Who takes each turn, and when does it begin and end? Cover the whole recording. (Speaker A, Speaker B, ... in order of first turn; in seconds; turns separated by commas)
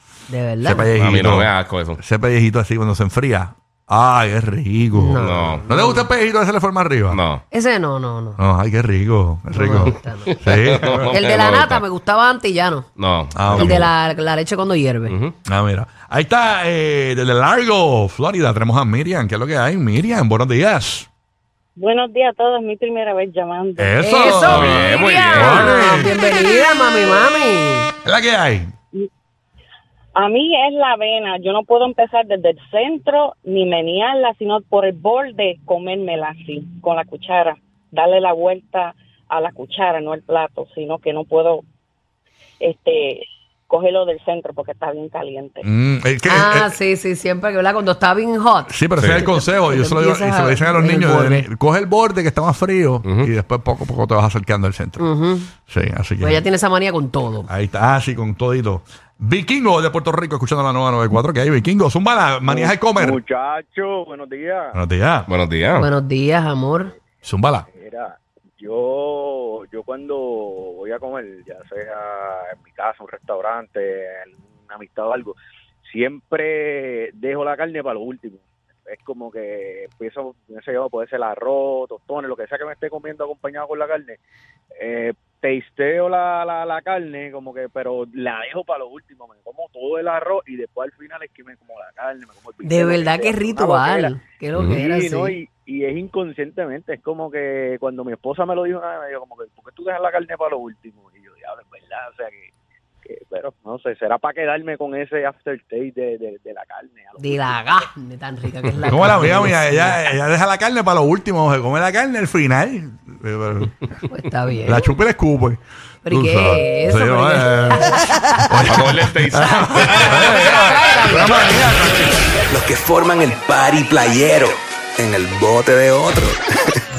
Speaker A: 0.3-0.9, Speaker B: 0.6-7.2, Speaker C: 1.0-2.0, Speaker A: 4.9-6.1, Speaker C: 5.2-5.7, Speaker C: 7.1-7.4, Speaker A: 7.5-8.4, Speaker B: 8.4-11.2, Speaker A: 9.5-10.4, Speaker C: 10.5-11.8, Speaker A: 11.1-12.9, Speaker C: 13.0-13.9, Speaker B: 13.3-13.9, Speaker A: 13.5-15.2, Speaker C: 15.1-15.3, Speaker B: 15.5-21.1, Speaker D: 21.8-24.2, Speaker B: 23.8-26.2, Speaker A: 24.0-27.9, Speaker C: 24.4-25.8, Speaker B: 28.0-28.7, Speaker D: 30.1-41.6, Speaker D: 42.6-45.7, Speaker B: 45.6-46.8, Speaker A: 46.3-51.5, Speaker B: 48.7-55.1, Speaker A: 55.0-55.5, Speaker B: 55.6-56.4, Speaker A: 56.2-57.5, Speaker B: 57.5-63.2, Speaker E: 62.5-64.8, Speaker B: 64.7-65.3, Speaker C: 65.3-65.9, Speaker A: 65.8-66.9, Speaker B: 67.2-67.7, Speaker E: 67.7-84.2, Speaker E: 84.8-94.2, Speaker A: 92.6-95.4, Speaker C: 94.5-94.8, Speaker E: 94.8-102.5, Speaker E: 103.0-107.9, Speaker A: 107.2-109.9, Speaker B: 108.8-114.0, Speaker A: 114.1-114.9, Speaker B: 114.7-122.3, Speaker A: 116.0-118.9, Speaker C: 118.7-120.7, Speaker A: 119.6-121.6, Speaker F: 122.5-126.4